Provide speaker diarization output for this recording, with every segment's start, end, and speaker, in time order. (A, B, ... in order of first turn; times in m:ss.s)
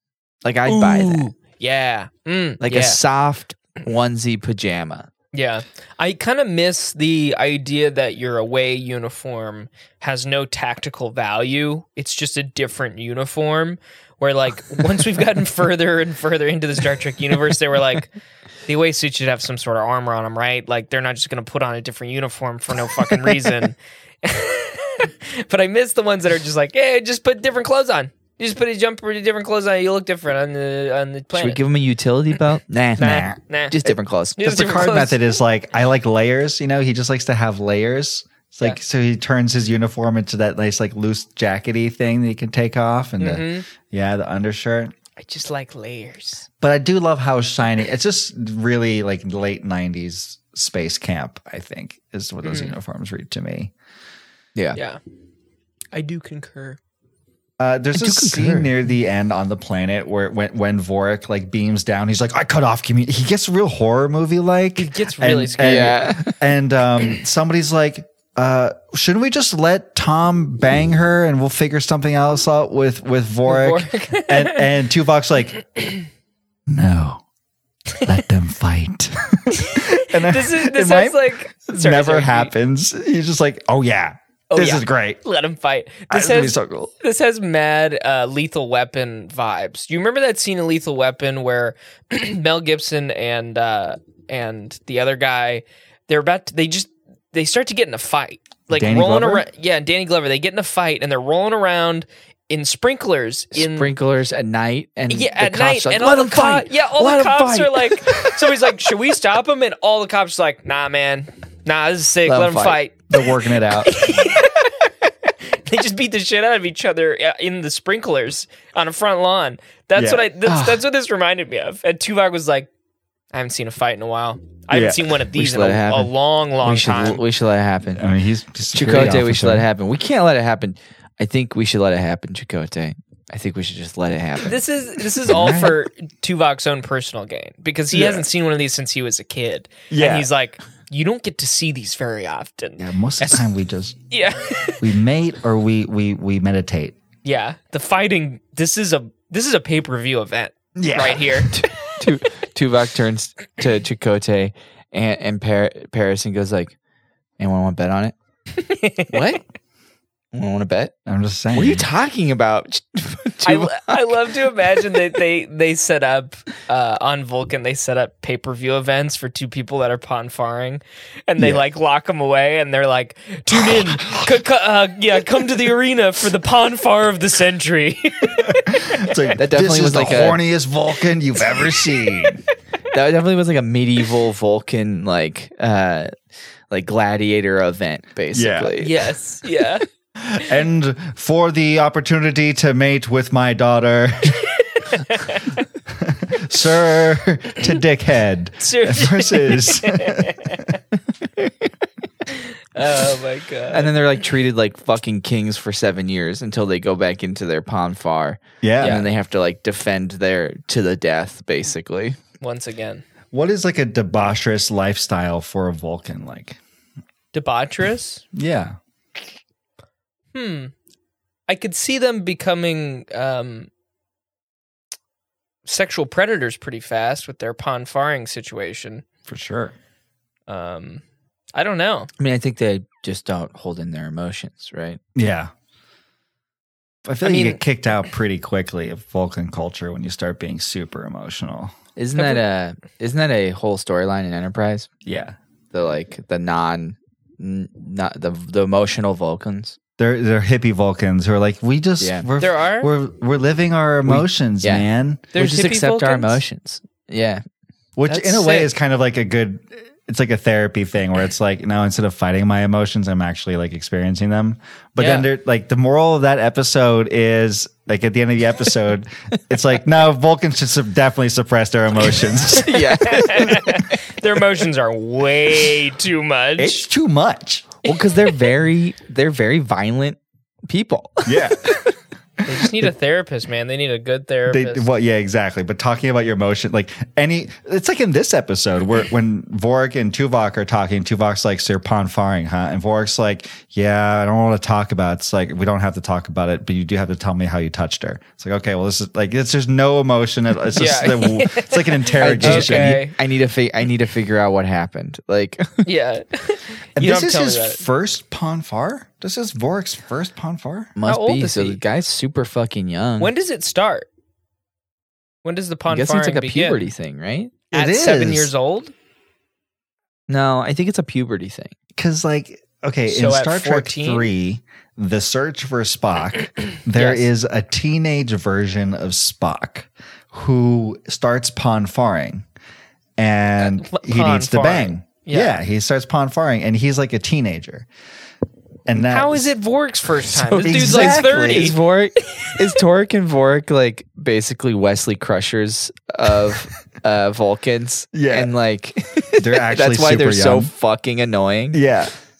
0:00.4-0:01.3 A
0:00.7-0:03.0 B
0:02.6-0:05.1 A
0:05.3-0:18.1 B
0:18.7-0:31.6 B
0:31.3-0:34.6 A
0:33.0-0:35.2 B
0:34.4-0:44.9 C
0:43.2-0:43.7 B
0:45.2-0:46.4 B
0:46.6-0:53.7 C
0:52.4-0:52.7 B
0:55.9-0:56.8 B
0:57.6-1:15.6 C
0:58.0-0:58.7 A
1:04.8-1:06.0 B
1:05.6-1:06.4 A
1:13.4-1:14.7 B
1:16.7-1:17.2 C
1:18.0-1:25.2 C
1:19.5-1:22.5 B
1:24.5-1:43.9 B
1:26.1-1:26.9 C
1:38.7-1:39.4 C
1:43.5-1:48.3 A
1:45.1-1:54.7 B
1:52.2-1:52.8 A
1:53.1-1:53.9 C
1:55.6-2:02.7 B
2:00.0-2:00.2 C
2:00.4-2:00.8 A
2:03.3-2:07.2 B
2:04.7-2:05.0 C
2:05.3-2:06.1 A
2:06.6-2:08.0 A
2:07.9-2:09.7 C
2:08.7-2:14.6 A
2:14.4-2:23.4 B
2:15.3-2:15.8 C
2:17.9-2:18.2 C
2:19.9-2:20.3 C
2:22.8-2:24.0 C
2:24.1-2:24.9 B
2:24.8-2:27.0 C
2:27.2-2:31.6 B
2:30.8-2:31.5 C
2:31.5-2:36.7 A
2:37.4-2:38.1 A
2:38.6-2:39.2 B
2:39.1-2:39.4 A
2:40.3-2:40.9 A
2:41.0-2:41.8 C
2:41.5-2:44.1 A
2:43.4-2:59.3 B
2:53.5-2:54.2 C
2:58.4-3:02.4 C
2:59.4-3:00.4 A
3:02.9-3:06.1 A
3:06.7-3:09.0 A
3:08.3-3:08.7 C
3:08.8-3:09.8 B
3:10.2-3:14.5 C
3:14.9-3:15.4 B
3:15.9-3:20.7 C
3:18.6-3:20.6 B
3:22.3-3:23.9 B
3:23.7-3:32.2 A
3:28.6-3:29.0 C
3:28.8-3:29.1 B
3:32.4-3:33.0 B
3:33.3-3:36.6 C
3:37.3-3:38.2 B
3:38.3-3:38.8 C
3:40.3-3:40.7 B
3:41.5-3:43.7 B
3:45.7-3:49.0 B
3:49.3-3:49.7 C
3:50.5-3:51.0 B
3:51.6-3:52.1 B
3:52.2-3:55.0 A
3:55.1-3:55.5 C
3:57.0-4:01.7 C
3:57.2-3:57.6 B
4:02.0-4:04.9 A
4:02.2-4:02.4 B
4:05.0-4:05.4 C
4:05.7-4:09.8 A
4:10.0-4:15.3 C
4:12.0-4:12.3 A
4:12.4-4:12.9 B
4:14.0-4:17.4 A
4:15.3-4:16.4 B
4:18.0-4:32.9 C
4:18.1-4:18.7 B
4:25.0-4:25.3 B
4:32.6-4:33.6 A
4:32.7-4:36.8 B
4:36.6-4:37.7 C
4:37.8-4:41.5 A
4:41.2-4:41.7 C
4:42.4-4:42.9 C
4:42.4-4:44.9 B
4:44.5-5:03.0 C
5:00.7-5:03.1 B
5:02.2-5:05.9 A
5:05.8-5:07.8 B
5:07.0-5:10.9 C
5:11.0-5:13.3 A
5:11.0-5:11.8 B
5:13.2-5:14.1 B
5:15.4-5:16.8 B
5:15.9-5:17.5 A
5:17.7-5:18.9 B
5:17.7-5:18.5 C
5:20.3-5:21.7 A
5:22.0-5:32.4 C
5:23.1-5:24.3 B
5:26.9-5:27.3 B
5:33.2-5:37.9 C
5:33.6-5:35.6 B
5:38.9-5:39.5 C
5:39.0-5:41.8 B
5:40.5-5:51.8 A
5:40.5-5:41.7 C
5:48.1-5:48.5 C
5:49.4-5:50.7 C
5:51.7-5:52.1 C